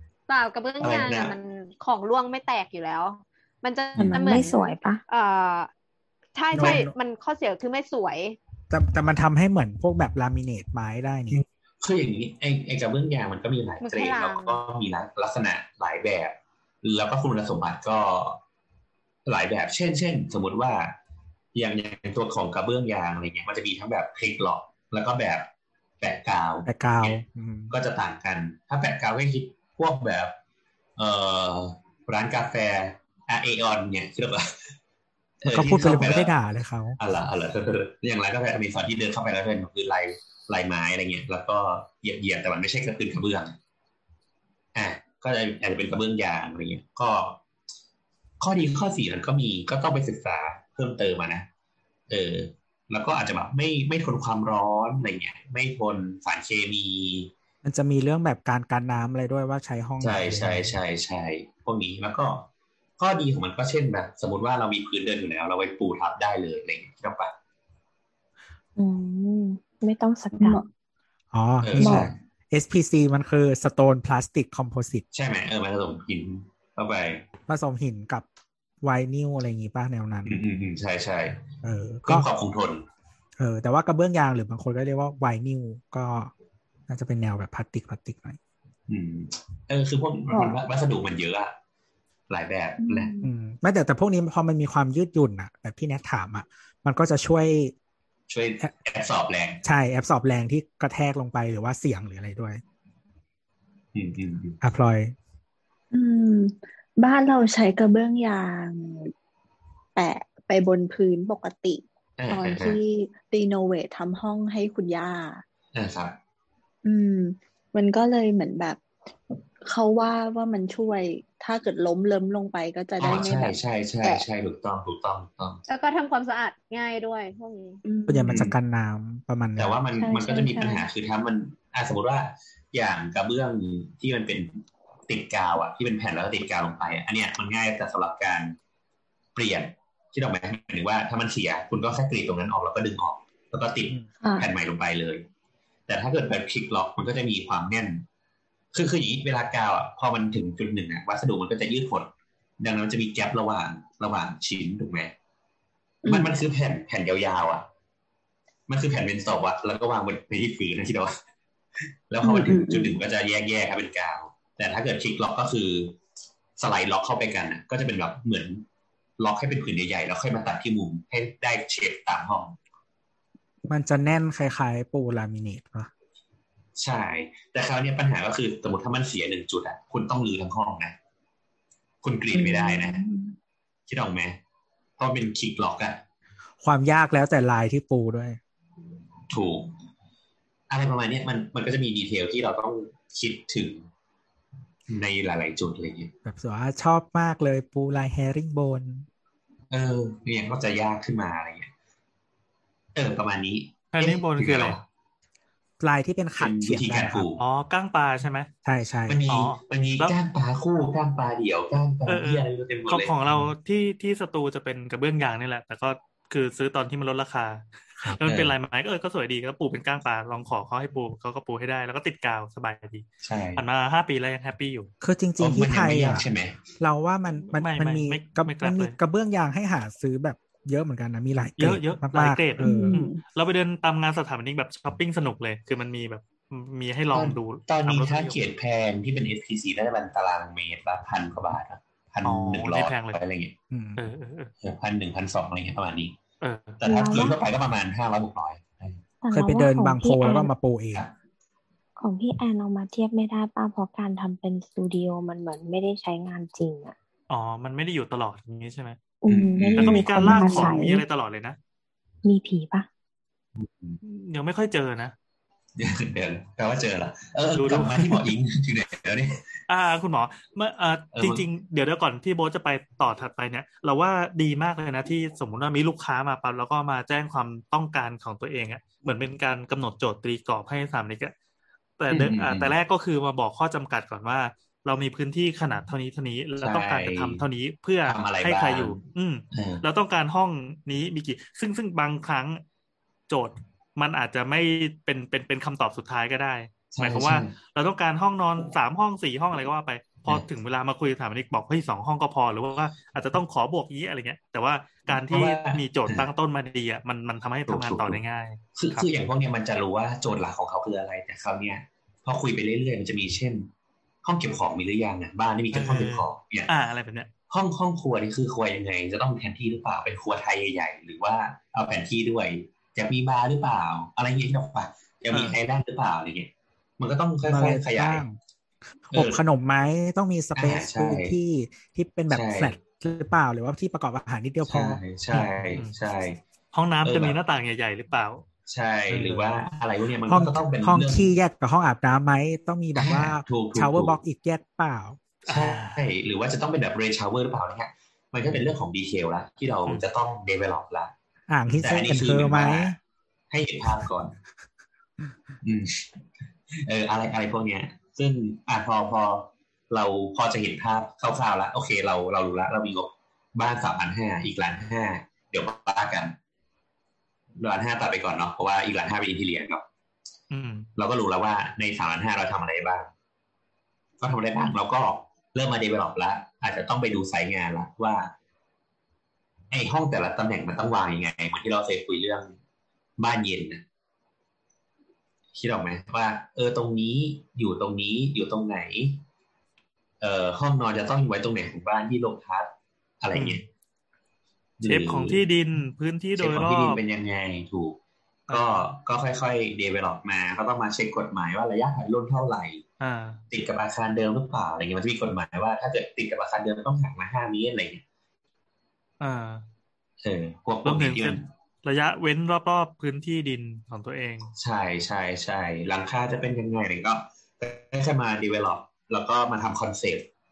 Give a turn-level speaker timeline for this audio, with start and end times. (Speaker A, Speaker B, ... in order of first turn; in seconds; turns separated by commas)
Speaker A: 0.3-5.7, Speaker B: 0.8-1.4, Speaker C: 4.1-5.0, Speaker A: 6.3-8.4, Speaker D: 6.5-6.9, Speaker D: 8.7-11.4, Speaker B: 11.3-18.4, Speaker A: 13.8-14.6, Speaker B: 19.2-20.9, Speaker B: 21.5-25.5, Speaker B: 26.0-30.3, Speaker D: 26.6-27.7, Speaker B: 31.0-34.7, Speaker B: 35.4-36.3, Speaker D: 35.5-37.0, Speaker B: 37.0-43.5, Speaker B: 44.7-47.4, Speaker B: 48.4-51.5, Speaker B: 52.1-57.3, Speaker D: 57.6-60.7, Speaker B: 60.0-67.3, Speaker C: 68.8-70.6, Speaker E: 70.3-70.7, Speaker D: 71.3-75.0, Speaker B: 71.6-72.1, Speaker E: 71.8-72.1, Speaker B: 75.1-77.2, Speaker D: 77.5-78.2, Speaker D: 78.8-80.4, Speaker B: 80.2-81.4, Speaker D: 81.6-82.3, Speaker B: 82.0-82.8, Speaker D: 83.4-86.3, Speaker D: 86.9-88.4, Speaker B: 88.9-91.5, Speaker B: 92.3-93.2, Speaker E: 92.8-93.3, Speaker D: 93.2-97.7, Speaker B: 98.3-99.6, Speaker D: 99.6-102.6, Speaker B: 103.9-104.6, Speaker D: 104.6-105.1, Speaker E: 105.9-109.1, Speaker E: 110.0-115.4, Speaker B: 112.2-112.8, Speaker B: 115.7-116.2, Speaker E: 116.8-118.8, Speaker E: 119.6-124.2, Speaker B: 123.0-125.6, Speaker A: 125.7-127.8, Speaker E: 127.8-128.3, Speaker D: 128.1-129.8, Speaker B: 128.2-128.6, Speaker B: 129.6-138.6, Speaker E: 129.9-130.8, Speaker B: 139.3-145.2, Speaker E: 144.2-144.5, Speaker B: 145.9-148.0, Speaker B: 148.7-155.1, Speaker E: 156.1-156.3, Speaker B: 156.1-157.7, Speaker B: 158.7-161.1, Speaker B: 162.1-166.0, Speaker E: 162.2-163.0, Speaker B: 166.6-168.6, Speaker B: 169.2-172.6, Speaker D: 173.7-175.9, Speaker B: 176.8-180.9, Speaker B: 182.0-183.0, Speaker E: 182.3-183.3, Speaker B: 183.9-184.4, Speaker B: 185.0-186.0, Speaker D: 186.6-188.4, Speaker B: 189.3-189.7, Speaker B: 190.7-193.9, Speaker B: 194.9-196.1, Speaker D: 196.2-199.1, Speaker B: 199.7-201.7, Speaker B: 202.9-204.8, Speaker F: 203.9-204.8, Speaker D: 205.8-207.3, Speaker B: 206.4-207.4, Speaker F: 207.4-208.5, Speaker D: 208.6-209.2, Speaker B: 209.1-213.2, Speaker F: 209.3-210.1, Speaker F: 212.1-217.7, Speaker F: 218.2-224.9, Speaker B: 218.2-218.5, Speaker B: 223.2-223.6, Speaker D: 225.0-226.2, Speaker B: 225.4-226.6, Speaker D: 226.8-233.0, Speaker F: 227.5-228.9, Speaker F: 231.6-238.4, Speaker E: 232.6-233.2, Speaker B: 237.1-243.5, Speaker F: 242.2-243.2, Speaker D: 243.7-244.0, Speaker F: 244.0-244.5, Speaker B: 244.6-246.2, Speaker F: 246.4-246.8, Speaker B: 246.8-249.0, Speaker C: 246.8-247.4, Speaker C: 249.2-250.5, Speaker D: 249.3-251.1, Speaker C: 252.0-256.9, Speaker F: 257.3-259.0, Speaker C: 259.2-261.0, Speaker B: 259.3-260.7, Speaker F: 259.8-261.6, Speaker C: 262.2-262.9, Speaker B: 263.6-264.0, Speaker F: 264.0-265.1, Speaker B: 265.8-269.4, Speaker F: 267.5-268.3, Speaker F: 269.7-281.3, Speaker B: 271.1-271.4, Speaker F: 282.0-292.6, Speaker B: 282.1-282.7, Speaker B: 286.6-287.4, Speaker B: 288.1-289.8, Speaker F: 293.3-309.1, Speaker B: 296.9-297.5, Speaker B: 305.1-306.3, Speaker B: 307.7-308.2, Speaker B: 308.7-313.7, Speaker B: 314.2-316.7, Speaker F: 315.7-317.3, Speaker B: 317.5-328.2, Speaker F: 325.3-325.6, Speaker D: 327.5-328.4, Speaker D: 329.1-335.0, Speaker B: 329.1-329.4, Speaker B: 330.5-331.4, Speaker B: 332.3-332.7, Speaker B: 334.6-336.4, Speaker F: 335.3-335.9, Speaker F: 336.7-338.4, Speaker B: 337.0-337.4, Speaker B: 338.7-341.3, Speaker F: 339.1-339.5, Speaker D: 340.2-345.2, Speaker B: 342.9-344.2, Speaker B: 345.4-351.1, Speaker F: 345.5-346.1, Speaker D: 351.5-353.0, Speaker B: 351.8-352.9, Speaker B: 353.5-354.3, Speaker B: 355.6-356.0, Speaker B: 356.8-366.4, Speaker B: 367.6-369.8, Speaker F: 370.5-370.9, Speaker B: 371.0-373.1, Speaker B: 374.2-378.3, Speaker B: 379.7-382.5, Speaker B: 383.2-383.8, Speaker B: 385.5-389.2, Speaker B: 390.2-393.6, Speaker F: 393.3-393.6, Speaker B: 394.8-395.4, Speaker F: 394.9-397.0, Speaker B: 396.4-398.0, Speaker F: 398.5-398.9, Speaker B: 398.5-402.8, Speaker F: 403.0-403.4, Speaker B: 403.5-408.0, Speaker F: 409.2-409.6, Speaker B: 410.2-411.5, Speaker F: 410.8-414.5, Speaker B: 414.6-420.3